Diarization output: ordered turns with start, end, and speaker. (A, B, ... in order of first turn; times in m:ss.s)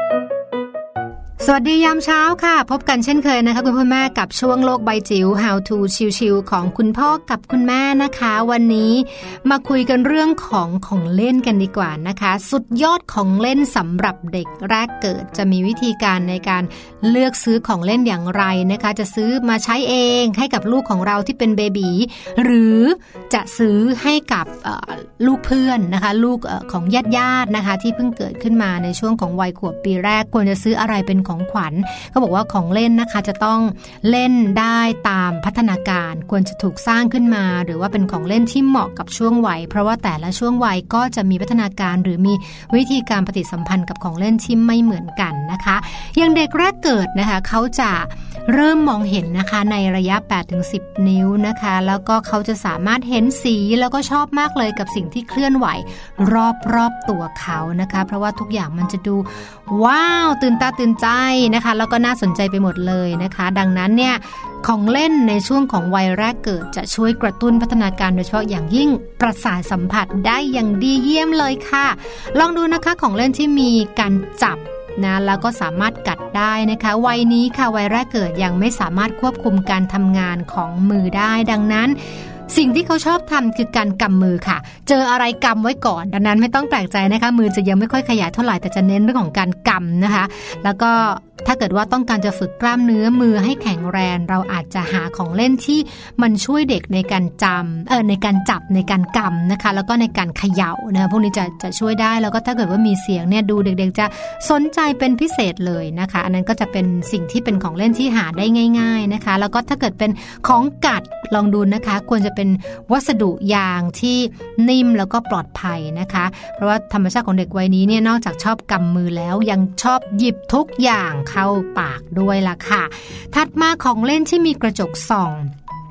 0:01.4-2:05.5 A